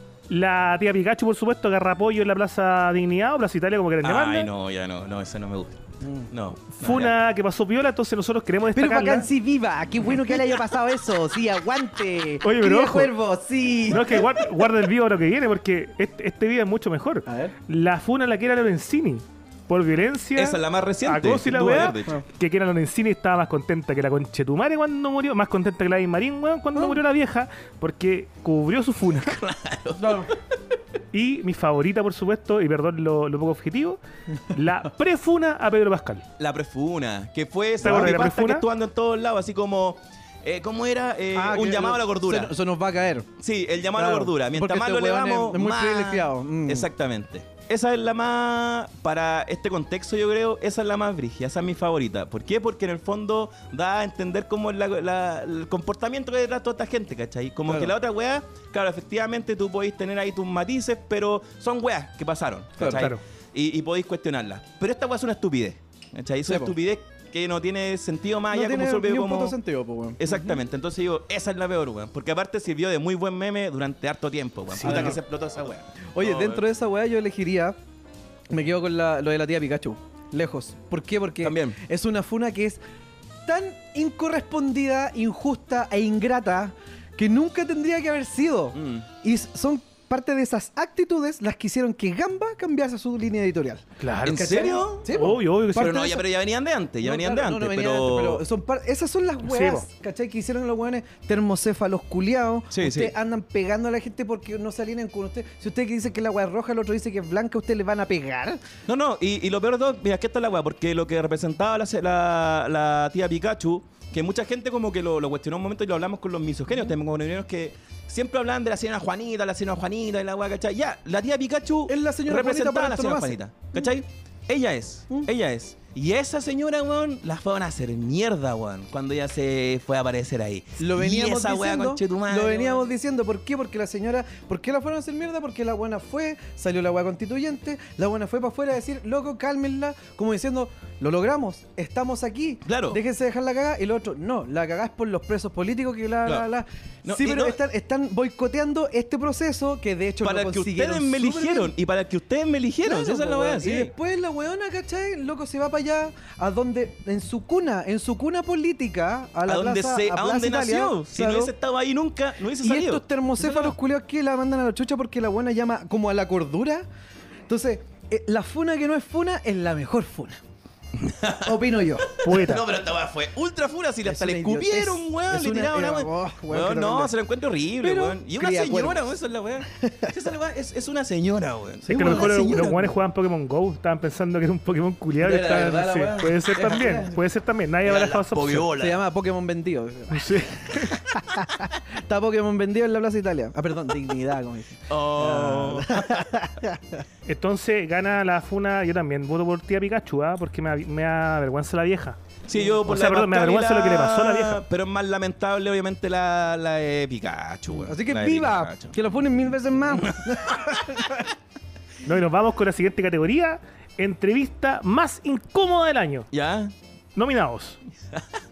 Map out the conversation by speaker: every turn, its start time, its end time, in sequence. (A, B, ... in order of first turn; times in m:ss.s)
0:00.3-0:04.5 A
0:04.0-0:07.1 B
0:06.0-0:06.3 C
0:06.8-0:09.3 A
0:08.7-0:14.4 C
0:12.4-0:13.1 A
0:13.9-0:29.4 A
0:17.2-0:17.5 C
0:20.4-0:22.1 B
0:26.8-0:27.0 C
0:29.1-0:30.3 B
0:29.9-0:30.3 C
0:31.1-0:36.2 A
0:36.4-0:42.5 B
0:37.8-0:38.2 C
0:37.8-0:38.6 A
0:41.3-0:43.3 C
0:43.4-1:09.6 B
0:43.9-0:46.9 C
0:57.7-0:57.9 C
1:02.8-1:03.1 C
1:02.9-1:03.2 A
1:06.4-1:06.7 C
1:08.5-1:10.6 C
1:10.2-1:16.6 B
1:14.7-1:15.2 A
1:14.8-1:15.2 C
1:16.1-1:17.8 C
1:18.5-1:22.8 C
1:21.4-1:21.8 B
1:23.4-1:36.0 C
1:28.7-1:29.0 B
1:34.0-1:36.2 A
1:34.2-1:35.1 B
1:35.7-1:38.4 B
1:37.0-1:48.6 C
1:39.4-1:39.8 A
1:42.7-1:43.1 B
1:48.9-2:12.9 B
2:01.9-2:03.9 C
2:10.8-2:31.7 C
2:22.6-2:23.0 B
2:27.0-2:27.6 B
2:30.2-2:33.9 B
2:32.8-2:41.5 C
2:39.4-2:43.7 B
2:42.6-2:46.8 C
2:47.5-2:50.4 C
2:51.0-3:02.7 B
2:51.4-2:52.2 C
2:52.2-2:52.6 A
2:54.0-2:57.1 C
2:57.8-2:59.1 C
2:59.7-3:00.1 C
3:01.8-3:02.9 C
3:01.9-3:08.7 A
3:05.2-3:07.2 C
3:07.8-3:09.0 B
3:08.8-3:17.0 C
3:10.1-3:10.9 A
3:14.9-3:16.2 B
3:17.2-3:22.2 A
3:22.5-3:29.0 B
3:22.8-3:24.6 A
3:27.7-3:31.3 C
3:30.0-3:30.8 B
3:32.0-3:36.3 A
3:36.3-3:36.7 B
3:37.2-3:37.8 A